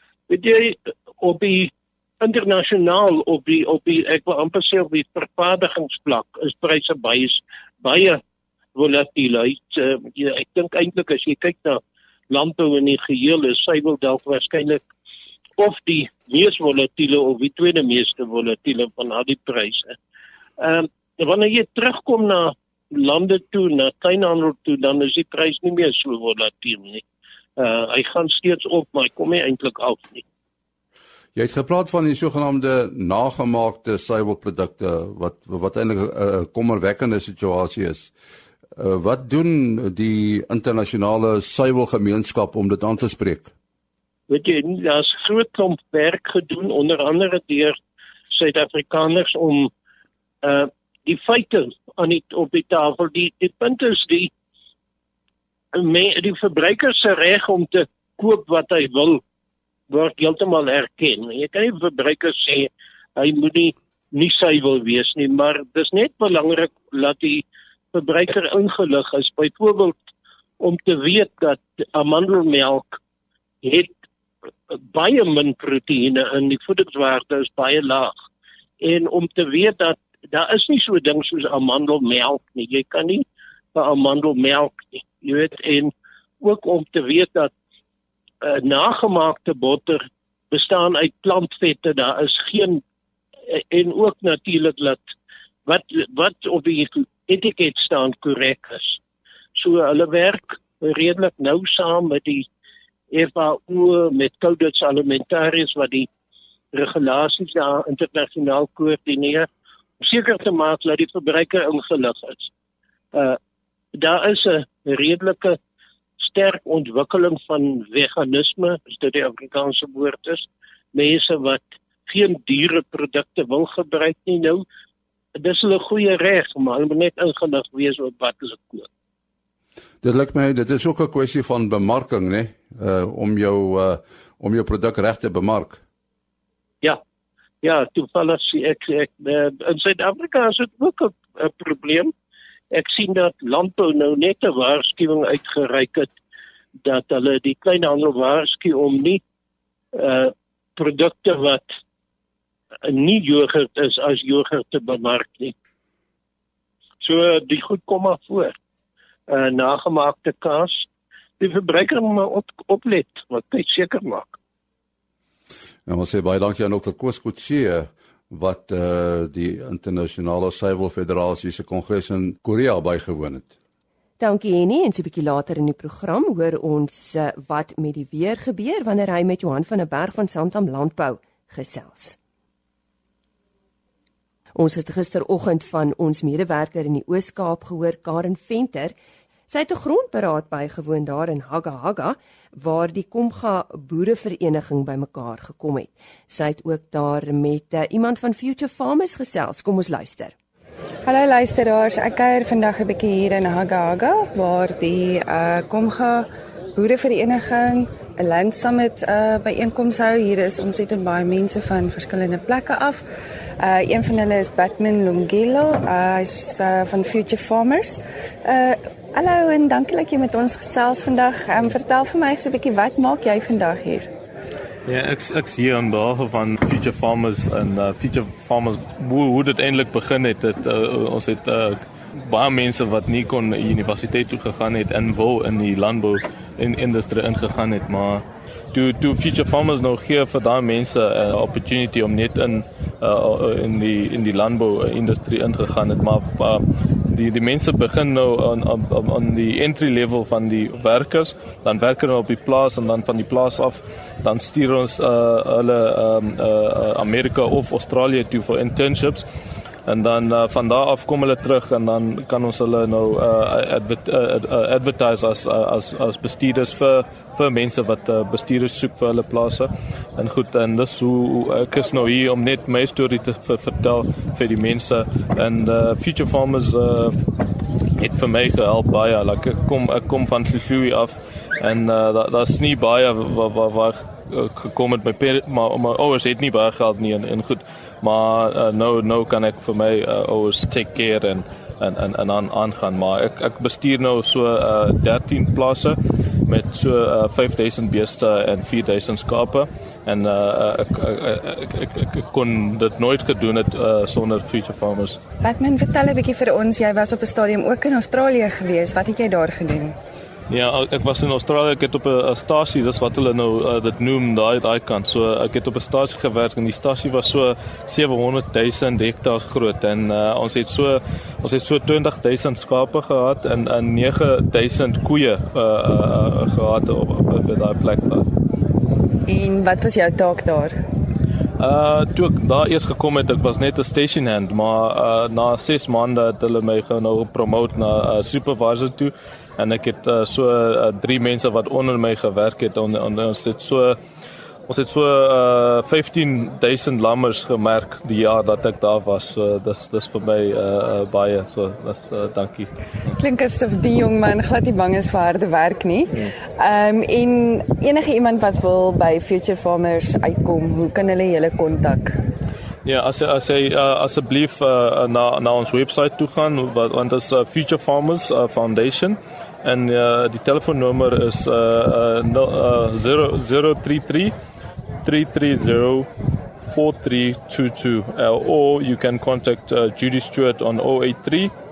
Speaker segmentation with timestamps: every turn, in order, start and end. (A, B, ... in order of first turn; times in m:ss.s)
0:00.3-0:08.2 A
0:08.8-0:14.8 A
0:15.6-0:20.0 A
0:20.6-0:27.0 A
0:27.6-0:30.2 A
0:31.3-0:38.1 B
0:38.8-0:43.5 B
0:44.3-0:47.8 A
0:48.3-0:49.7 A
0:50.4-0:54.3 A
0:55.7-0:59.2 A
0:59.9-1:10.0 A
1:10.6-1:13.0 A
1:13.6-1:13.9 A
1:14.7-1:18.1 A
1:18.8-1:27.5 A
1:28.4-1:32.8 A
1:33.5-1:35.1 A
1:35.6-1:39.0 A
1:39.6-1:42.4 A
1:43.1-1:46.1 A
1:46.7-1:49.5 A
1:50.0-1:52.5 A
1:54.0-1:55.6 A
1:56.2-2:04.6 A
2:05.4-2:08.9 A
2:10.0-2:15.8 B
2:17.6-2:22.1 A
2:22.7-2:26.1 A
2:26.8-2:29.2 A
2:29.9-2:31.7 A
2:32.8-2:35.5 A
2:37.0-2:38.5 A
2:39.3-2:40.8 A
2:41.4-2:44.4 A
2:45.8-2:53.5 B
2:54.2-3:02.2 C
3:04.5-3:08.9 C
3:09.5-3:20.3 C
3:21.0-3:33.0 D
3:33.6-3:44.1 D
3:44.8-4:19.3 E
4:19.9-4:37.2 E
4:38.0-5:05.2 E
5:05.4-5:10.0 D
5:10.5-5:28.3 E
5:29.3-5:30.8 D
5:31.6-5:44.0 E
5:44.7-5:52.7 E
5:53.2-6:02.2 D
6:02.8-6:14.3 E
6:15.0-6:21.5 E